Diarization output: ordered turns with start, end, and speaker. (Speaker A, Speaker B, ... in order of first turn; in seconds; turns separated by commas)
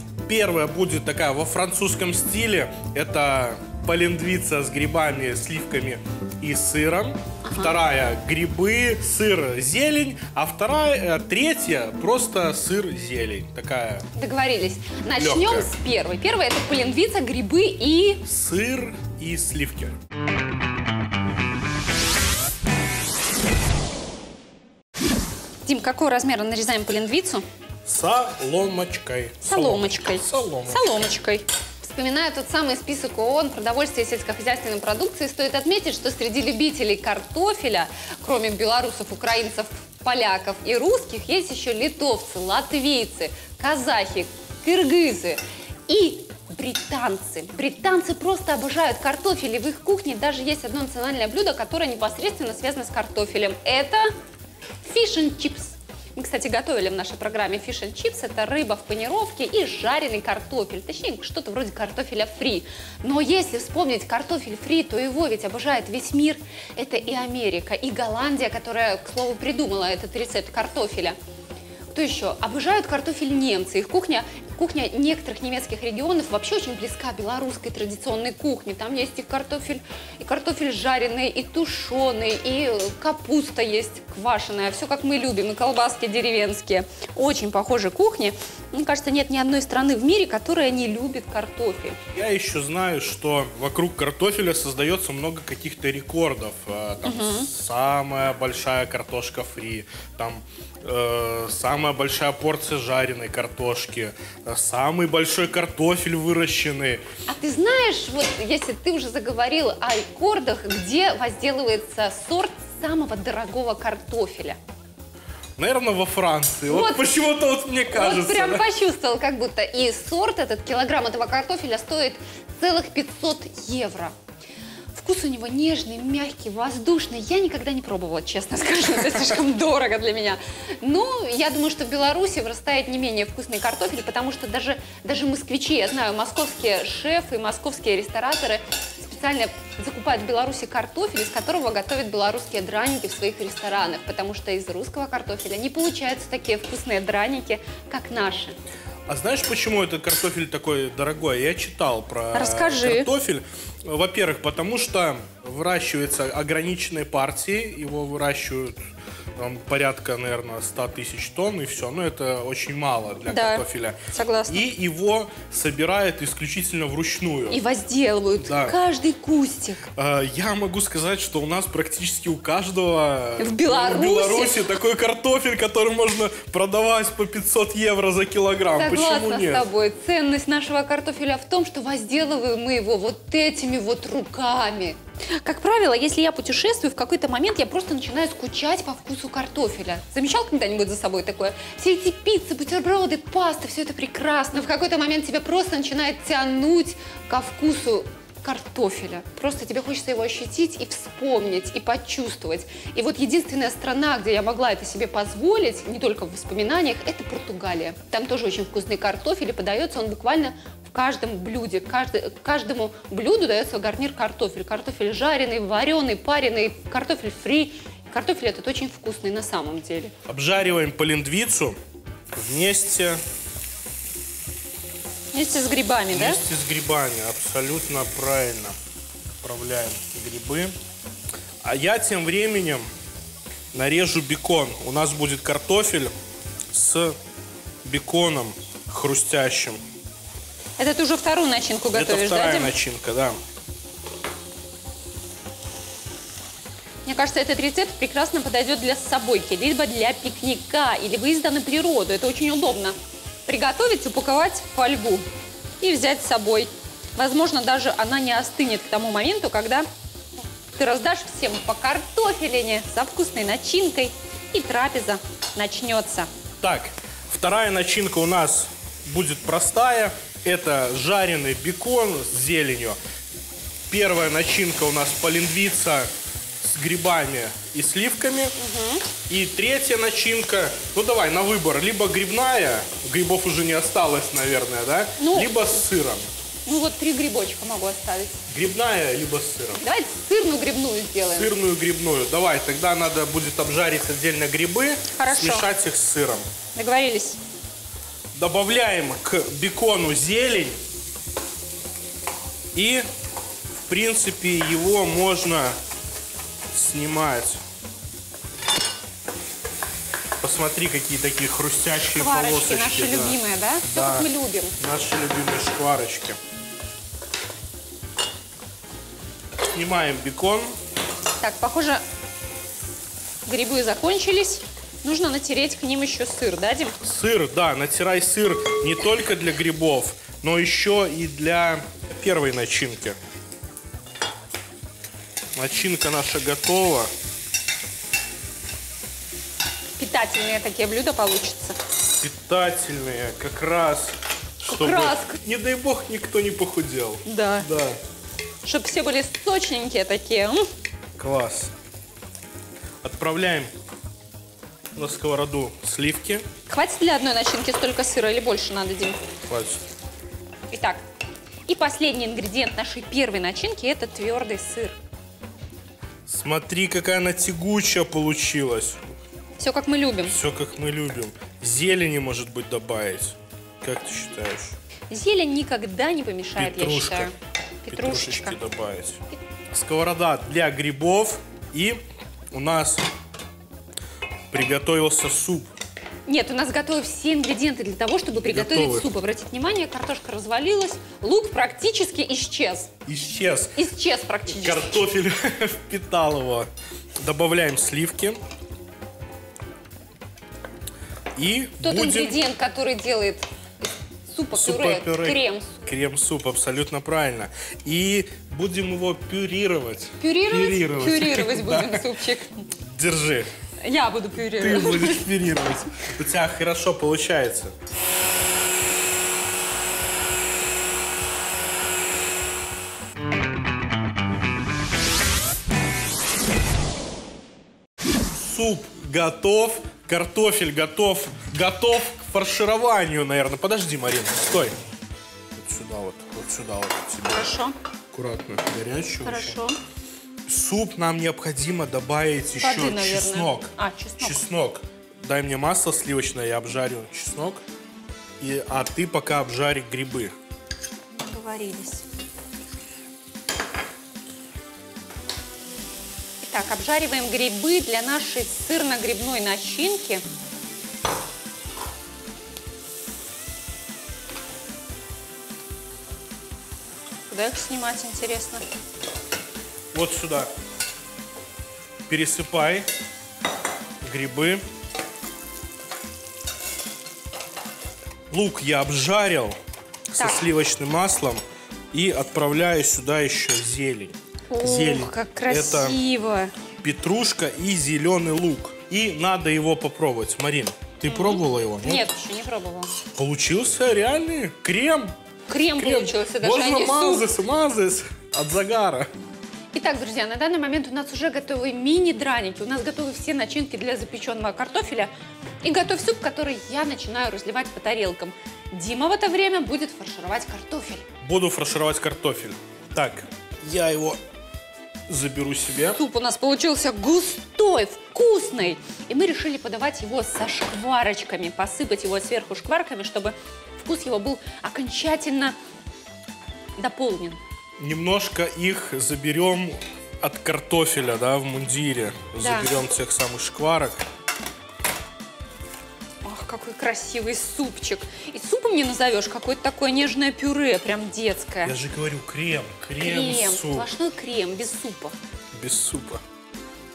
Speaker A: 0.3-14.1, Speaker B: 7.4-7.7, Speaker B: 14.2-18.2, Speaker A: 15.2-15.7, Speaker A: 18.3-20.0, Speaker B: 25.7-27.5, Speaker A: 27.9-30.8, Speaker B: 29.4-54.1, Speaker B: 54.8-71.2, Speaker B: 71.9-92.0, Speaker A: 92.1-107.0, Speaker B: 97.0-97.5, Speaker B: 107.3-114.6, Speaker A: 115.6-118.6, Speaker B: 116.7-117.1, Speaker B: 117.9-124.2, Speaker B: 124.9-148.6, Speaker A: 149.1-158.8, Speaker B: 152.3-153.1, Speaker A: 159.4-167.6, Speaker B: 163.3-164.6, Speaker B: 167.5-169.9, Speaker A: 168.4-168.8, Speaker A: 169.9-179.6, Speaker B: 173.4-174.6, Speaker B: 178.8-220.1, Speaker A: 220.3-221.8, Speaker A: 222.3-223.2, Speaker B: 225.3-226.4, Speaker A: 226.1-228.7, Speaker A: 229.4-230.8, Speaker A: 231.6-232.9, Speaker A: 233.7-236.1, Speaker A: 236.7-237.2, Speaker A: 237.8-239.8, Speaker B: 240.8-242.7, Speaker A: 241.9-243.4, Speaker B: 247.1-255.3, Speaker B: 255.8-259.9, Speaker B: 260.8-266.3, Speaker A: 266.6-273.0, Speaker A: 273.9-276.1, Speaker A: 276.6-278.6, Speaker B: 278.6-279.1, Speaker A: 279.3-286.3, Speaker B: 285.2-285.5, Speaker B: 286.7-288.4, Speaker A: 288.5-289.8, Speaker B: 289.8-291.5, Speaker A: 291.3-296.4, Speaker B: 295.1-295.7, Speaker B: 296.8-297.4, Speaker A: 298.3-300.8, Speaker A: 302.7-303.1, Speaker A: 303.7-305.8, Speaker A: 306.7-307.6, Speaker A: 310.4-314.3, Speaker B: 312.2-314.7, Speaker A: 314.8-316.4, Speaker A: 319.7-320.8, Speaker B: 321.4-322.0, Speaker B: 323.5-327.0, Speaker A: 327.0-333.2, Speaker A: 335.6-337.1, Speaker B: 340.0-341.8, Speaker A: 342.2-348.0, Speaker B: 344.7-345.4, Speaker B: 347.2-347.7, Speaker B: 348.6-350.7, Speaker A: 351.2-351.7, Speaker A: 353.0-353.7, Speaker A: 354.9-356.5, Speaker B: 356.7-359.3, Speaker A: 359.5-359.8, Speaker B: 360.7-361.0, Speaker B: 361.7-365.0, Speaker A: 366.3-369.0, Speaker B: 369.6-370.3, Speaker A: 370.3-374.8, Speaker B: 375.1-377.3, Speaker A: 376.6-377.3, Speaker B: 377.9-378.6, Speaker A: 377.9-382.0, Speaker A: 382.5-383.1, Speaker A: 384.5-385.7, Speaker B: 386.3-392.9, Speaker A: 388.5-389.1, Speaker A: 393.1-393.8, Speaker B: 393.8-395.0, Speaker A: 394.5-398.4, Speaker A: 401.4-402.4, Speaker B: 401.8-403.5, Speaker B: 404.3-405.7, Speaker A: 404.5-412.0, Speaker B: 410.2-412.7, Speaker A: 412.8-413.5, Speaker B: 413.8-415.2, Speaker A: 414.6-417.7, Speaker A: 428.3-434.8, Speaker A: 435.6-437.6, Speaker B: 437.3-437.8, Speaker A: 438.1-439.6, Speaker B: 439.2-439.8, Speaker A: 440.5-447.6, Speaker B: 442.6-444.4, Speaker A: 448.4-450.3, Speaker B: 451.1-452.0, Speaker B: 456.4-460.2, Speaker B: 467.3-468.6, Speaker A: 469.9-470.5, Speaker A: 472.1-472.9, Speaker A: 474.0-474.6, Speaker A: 478.3-479.6, Speaker A: 480.1-481.4, Speaker A: 481.9-486.0, Speaker B: 484.5-486.6, Speaker A: 486.8-492.0, Speaker B: 491.1-492.9, Speaker A: 493.1-495.1, Speaker B: 495.5-497.2, Speaker A: 495.8-499.1, Speaker B: 499.7-505.1, Speaker B: 505.6-511.1, Speaker A: 511.2-514.2, Speaker A: 515.1-516.0, Speaker B: 516.0-525.6, Speaker B: 526.8-527.4, Speaker A: 527.8-534.0, Speaker B: 532.4-532.7, Speaker B: 536.2-541.8, Speaker A: 541.6-543.9, Speaker B: 543.0-545.1, Speaker A: 545.5-546.2